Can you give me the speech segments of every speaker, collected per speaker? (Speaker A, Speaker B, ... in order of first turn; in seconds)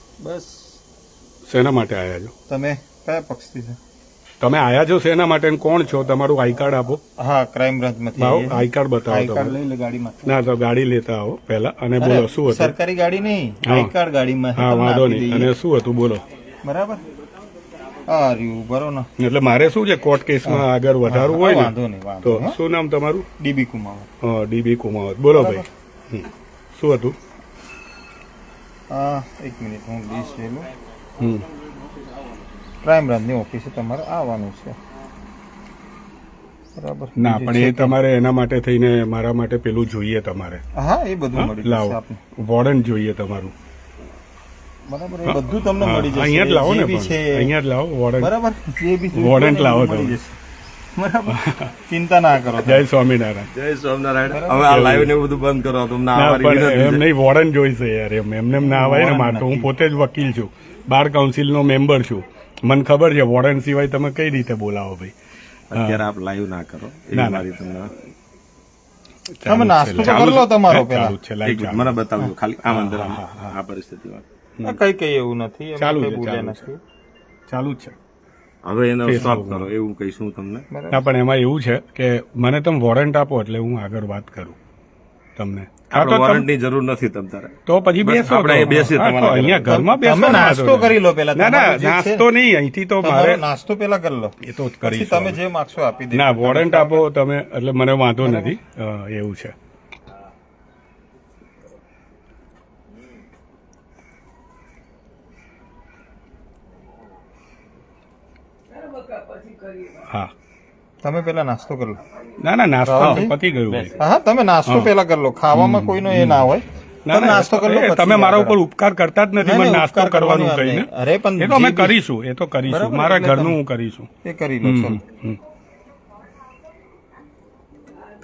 Speaker A: 0.2-0.8, 2.5-3.8, 7.2-10.4, 12.0-15.5, 16.6-17.0, 18.1-19.1, 20.4-22.6, 23.4-24.1, 25.3-25.7, 28.9-30.7, 32.8-34.8, 36.8-38.0, 40.8-42.2, 44.9-47.5, 48.2-50.4, 51.0-52.9, 54.3-55.0, 58.6-59.8, 69.5-71.3, 74.7-76.8, 80.7-81.1, 89.7-92.3, 93.0-97.0, 98.2-98.6, 111.0-112.0, 112.8-113.4, 114.0-118.6, 119.4-122.0, 122.7-123.6, 124.2-125.0
Speaker B: 1.5-2.3, 4.4-7.0, 8.2-9.6, 10.2-12.7, 13.7-13.9, 14.6-16.2, 19.2-21.7, 22.2-23.3, 24.2-27.2, 31.2-31.5, 37.2-40.6, 41.4-43.5, 45.3-48.3, 49.1-50.1, 51.3-51.7, 52.6-53.5, 54.7-55.1, 56.1-65.1, 65.8-66.0, 67.1-67.4, 69.4-71.9, 72.7-73.5, 75.8-76.7, 77.5-78.0, 79.0-79.7, 80.9-84.6, 85.4-86.5, 87.7-93.4, 94.4-95.4, 96.1-99.5, 110.0-110.3, 112.4-114.0, 115.5-116.5, 117.1-120.9, 121.4-124.1, 124.6-125.4
Speaker C: 53.5-57.0, 65.7-67.9, 71.4-74.2, 78.6-80.7, 85.9-89.7, 113.7-113.9